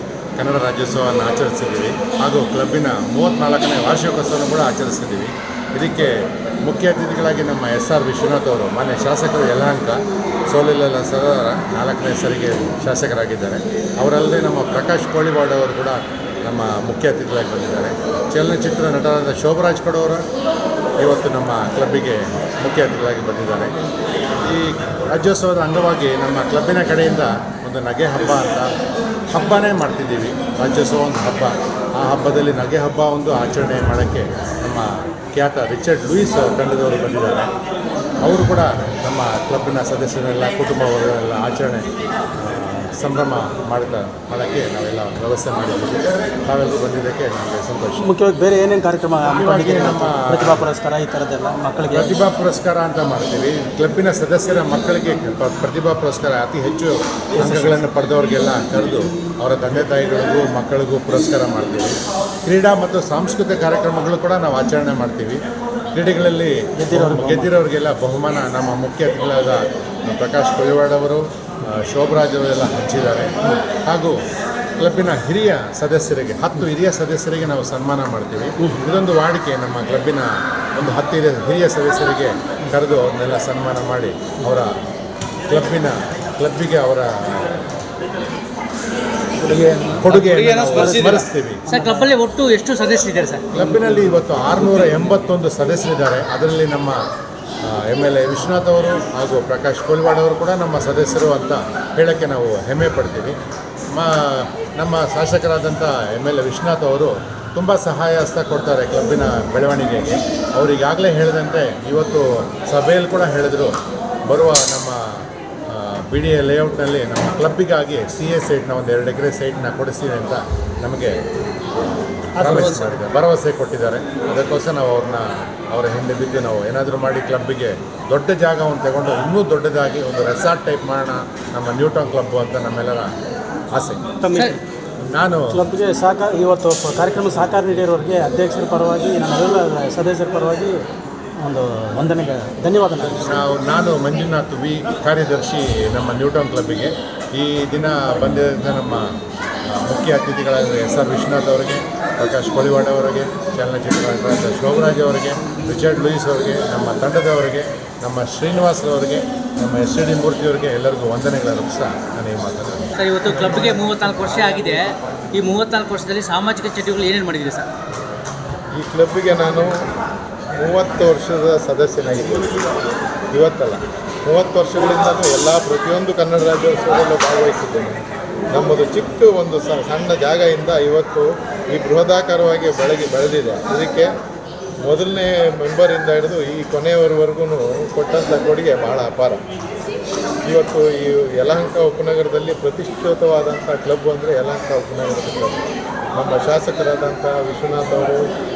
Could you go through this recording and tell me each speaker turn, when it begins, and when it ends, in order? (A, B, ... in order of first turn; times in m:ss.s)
0:00.4-0:06.1 A
0:06.6-0:10.0 A
0:10.5-0:20.2 A
0:21.0-0:23.7 A
0:24.4-0:28.7 A
0:29.3-0:37.5 A
0:38.2-0:41.8 A
0:42.4-0:48.1 A
0:48.0-0:52.2 B
0:49.3-0:50.7 A
0:51.8-1:05.4 A
0:57.4-0:57.8 B
1:05.9-1:13.3 A
1:06.8-1:07.5 B
1:13.8-1:14.2 A
1:14.8-1:24.7 A
1:18.6-1:18.9 B
1:25.5-1:27.6 A
1:29.5-1:30.0 B
1:30.0-1:31.6 A
1:30.1-1:33.4 C
1:30.8-1:31.1 B
1:31.7-1:32.1 B
1:33.5-1:37.0 A
1:33.8-1:34.1 B
1:37.7-1:43.4 A
1:43.9-1:53.7 A
1:54.3-1:55.0 A
1:55.7-2:01.2 A
2:02.3-2:13.1 A
2:02.5-2:02.8 C
2:13.7-2:14.0 A
2:14.2-2:14.6 B
2:14.3-2:14.6 C
2:15.0-2:15.6 A
2:15.5-2:20.8 B
2:21.4-2:23.5 B
2:23.0-2:29.0 A
2:29.7-2:42.9 A
2:43.0-2:47.7 C
2:48.7-2:49.7 D
2:50.5-2:52.6 D
2:53.3-3:04.1 D
3:04.8-3:09.4 D
3:10.4-3:18.2 D